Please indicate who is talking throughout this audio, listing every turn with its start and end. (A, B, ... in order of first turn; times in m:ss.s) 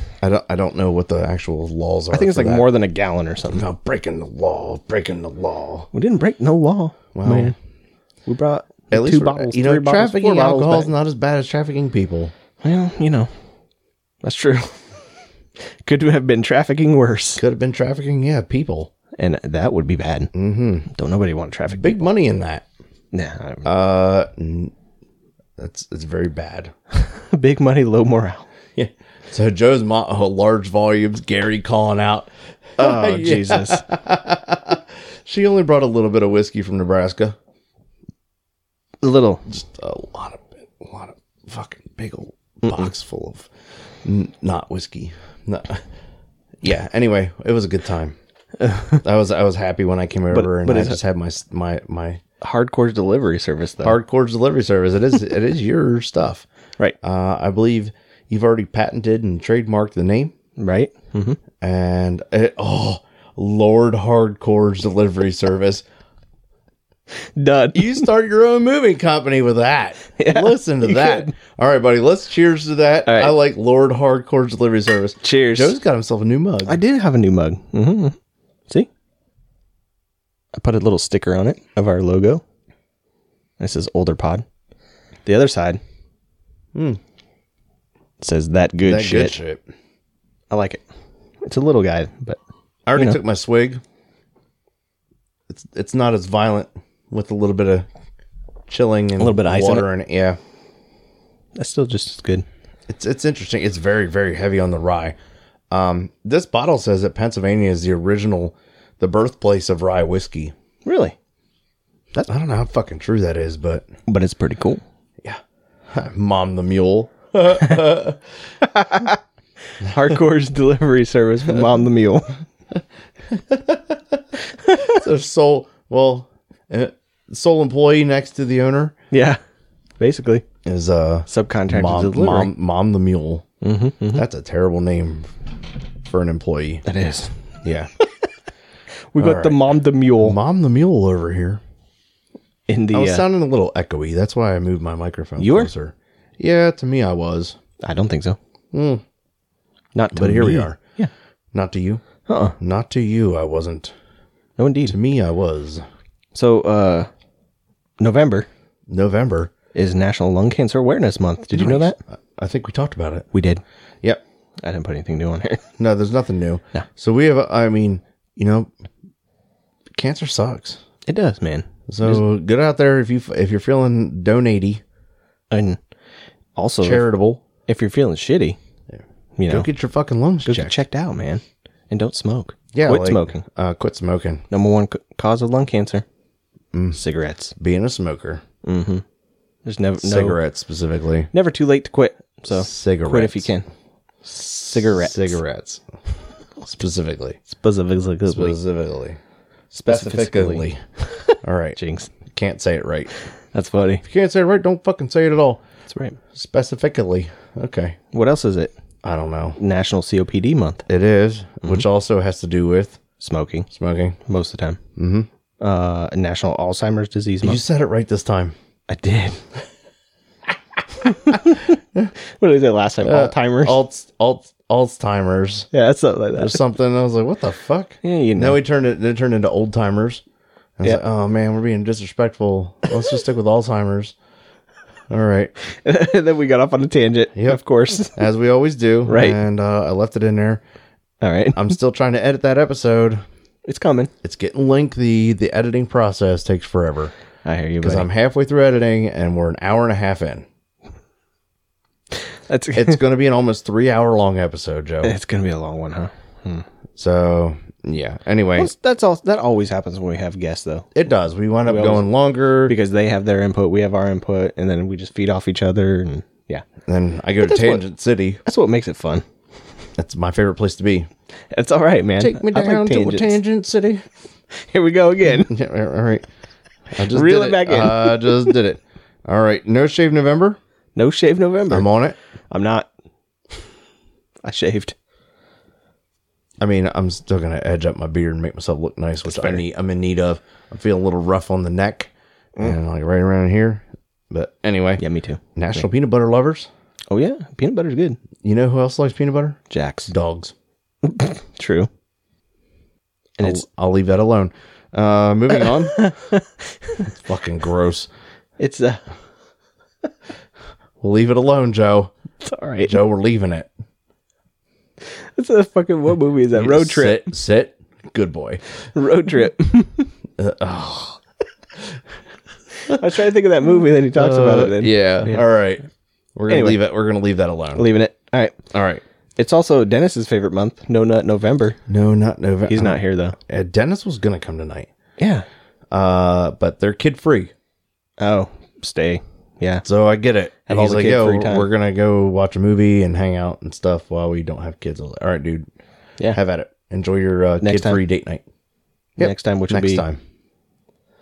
0:00.2-0:02.7 A
0:02.1-0:03.6 B
0:03.4-0:05.9 A
0:05.9-0:07.6 B
0:07.2-0:07.5 A
0:08.3-0:10.9 B
0:08.9-0:12.3 A
0:12.6-0:13.3 B
0:14.2-0:15.0 B
0:15.8-0:17.4 B
0:17.4-0:18.9 A
0:19.2-0:20.3 B
0:20.3-0:20.9 A
0:20.9-0:22.1 B
0:21.8-0:22.7 A
0:23.1-0:23.7 B
0:23.6-0:24.7 A
0:25.6-0:26.7 A
0:26.9-0:28.5 B
0:28.8-0:37.4 A
0:32.8-0:33.8 B
0:39.0-0:39.4 B
0:39.5-0:43.5 A
0:42.6-0:42.9 B
0:44.0-0:45.8 A
0:46.6-0:48.2 A
0:48.6-0:49.0 B
0:49.0-0:52.2 A
0:50.3-0:51.0 B
0:52.4-0:54.0 B
0:53.8-0:56.5 A
0:57.0-1:00.3 A
1:00.6-1:01.4 B
1:01.6-1:05.8 A
1:07.4-1:08.1 B
1:07.7-1:16.8 A
1:10.2-1:11.3 B
1:13.0-1:13.4 B
1:15.2-1:15.8 B
1:16.7-1:18.2 B
1:20.6-1:22.4 B
1:23.6-1:24.4 B
1:25.3-1:25.8 B
1:26.8-1:27.0 A
1:28.2-1:29.4 B
1:28.8-1:29.6 A
1:30.5-1:30.8 B
1:31.4-1:32.4 B
1:32.9-1:33.8 A
1:33.0-1:33.2 B
1:35.5-1:37.9 A
1:38.7-1:40.4 A
1:39.2-1:39.9 B
1:41.6-1:42.4 B
1:42.9-1:45.2 A
1:45.7-1:50.5 A
1:50.8-1:51.2 B
1:52.1-1:53.9 A
1:54.1-1:54.8 B
1:55.9-1:58.2 A
1:58.6-1:59.2 B
1:59.8-2:02.4 B
2:03.3-2:04.2 A
2:04.7-2:05.0 B
2:04.8-2:09.0 A
2:09.1-2:09.4 B
2:10.0-2:10.4 B
2:10.6-2:13.5 A
2:11.3-2:12.5 B
2:13.6-2:14.2 B
2:14.1-2:15.3 A
2:16.0-2:16.8 A
2:16.8-2:17.4 B
2:17.6-2:17.9 A
2:19.1-2:20.4 B
2:19.2-2:19.6 A
2:20.2-2:21.6 A
2:22.7-2:23.3 B
2:22.9-2:27.6 A
2:25.4-2:25.7 B
2:27.8-2:28.4 B
2:28.7-2:29.0 A
2:30.0-2:31.1 B
2:30.1-2:30.8 A
2:31.5-2:32.0 A
2:32.3-2:32.6 B
2:32.6-2:33.9 A
2:34.6-2:35.0 B
2:34.9-2:35.8 A
2:36.4-2:37.1 B
2:38.0-2:38.5 B
2:38.9-2:39.5 A
2:39.8-2:42.0 B
2:41.5-2:43.3 A
2:43.3-2:43.6 B
2:44.6-2:45.6 B
2:45.8-2:48.7 A
2:49.9-2:50.8 A
2:51.1-2:52.2 B
2:51.9-2:54.8 A
2:55.5-2:55.8 B
2:56.6-2:57.1 B
2:56.8-2:57.4 A
2:57.7-2:58.6 B
2:59.4-2:59.7 B
2:59.5-3:00.8 A
3:00.4-3:03.4 B
3:02.7-3:04.4 A
3:04.5-3:06.0 B
3:06.7-3:07.0 A
3:07.0-3:07.5 B
3:07.6-3:08.4 A
3:08.6-3:09.0 B
3:09.6-3:10.4 B
3:10.0-3:11.3 A
3:11.3-3:13.7 B
3:12.5-3:13.5 A
3:14.3-3:15.8 A
3:14.4-3:15.4 B
3:16.7-3:17.4 A
3:17.5-3:18.6 B
3:18.3-3:19.2 A
3:19.7-3:22.1 B
3:19.9-3:20.8 A
3:21.4-3:21.8 A
3:22.3-3:23.1 A
3:23.5-3:24.0 B
3:24.0-3:25.6 A
3:25.9-3:26.2 B
3:26.3-3:28.0 A
3:28.1-3:28.7 B
3:29.0-3:29.6 A
3:29.6-3:30.8 B
3:30.9-3:33.0 A
3:33.2-3:33.7 B
3:33.7-3:34.2 A
3:34.3-3:34.8 B
3:35.0-3:35.3 A
3:35.6-3:37.6 B
3:37.4-3:38.6 A
3:38.9-3:39.4 B
3:41.0-3:41.8 B
3:41.0-3:41.4 A
3:42.4-3:43.8 B
3:43.0-3:45.7 A
3:45.7-3:46.6 B
3:46.4-3:50.2 A
3:48.0-3:48.6 B
3:50.8-3:54.2 A
3:55.1-3:55.5 A
3:55.7-3:58.2 B
3:57.4-4:00.6 A
3:59.1-3:59.4 B
4:01.2-4:01.8 B
4:01.5-4:03.2 A
4:03.7-4:04.1 B
4:04.2-4:07.1 A
4:07.4-4:08.1 B
4:07.8-4:10.5 A
4:12.5-4:13.0 B
4:12.8-4:15.2 A
4:15.0-4:16.6 B
4:17.0-4:18.7 A
4:18.6-4:20.9 B
4:21.0-4:22.8 A
4:21.7-4:22.1 B
4:22.7-4:26.6 B
4:26.9-4:28.4 A
4:27.4-4:27.8 B
4:28.4-4:29.2 B
4:30.0-4:31.1 A
4:31.5-4:33.4 B
4:32.2-4:34.0 A
4:34.5-4:35.5 B
4:35.4-4:36.2 A
4:36.9-4:40.6 A
4:37.1-4:38.6 B
4:41.0-4:41.9 B
4:41.7-4:42.2 A
4:42.5-4:42.9 B
4:44.4-4:45.0 B
4:46.6-4:55.0 A
4:49.3-4:49.6 B
4:55.0-4:55.4 B
4:55.6-4:56.7 A
4:57.1-4:58.2 B
4:58.4-5:00.5 A
4:59.7-5:00.1 B
5:01.0-5:01.9 B
5:03.4-5:03.7 B
5:03.4-5:06.1 A
5:05.6-5:07.1 B
5:07.2-5:08.1 A
5:08.6-5:09.0 B
5:11.0-5:12.1 A
5:12.4-5:13.0 B
5:12.8-5:13.7 A
5:15.0-5:17.3 B
5:16.5-5:18.6 A
5:18.9-5:20.1 B
5:20.4-5:21.2 A
5:22.8-5:25.4 B
5:24.2-5:27.9 A
5:26.5-5:26.8 B
5:27.8-5:28.6 B
5:28.7-5:29.0 A
5:29.4-5:31.8 B
5:31.9-5:34.9 A
5:32.7-5:33.4 B
5:35.2-5:35.5 B
5:35.9-5:37.5 A
5:38.2-5:39.8 B
5:39.8-5:45.7 A
5:40.7-5:41.7 B
5:46.3-5:48.4 A
5:47.6-5:48.0 B
5:49.2-5:50.0 B
5:49.2-5:50.2 A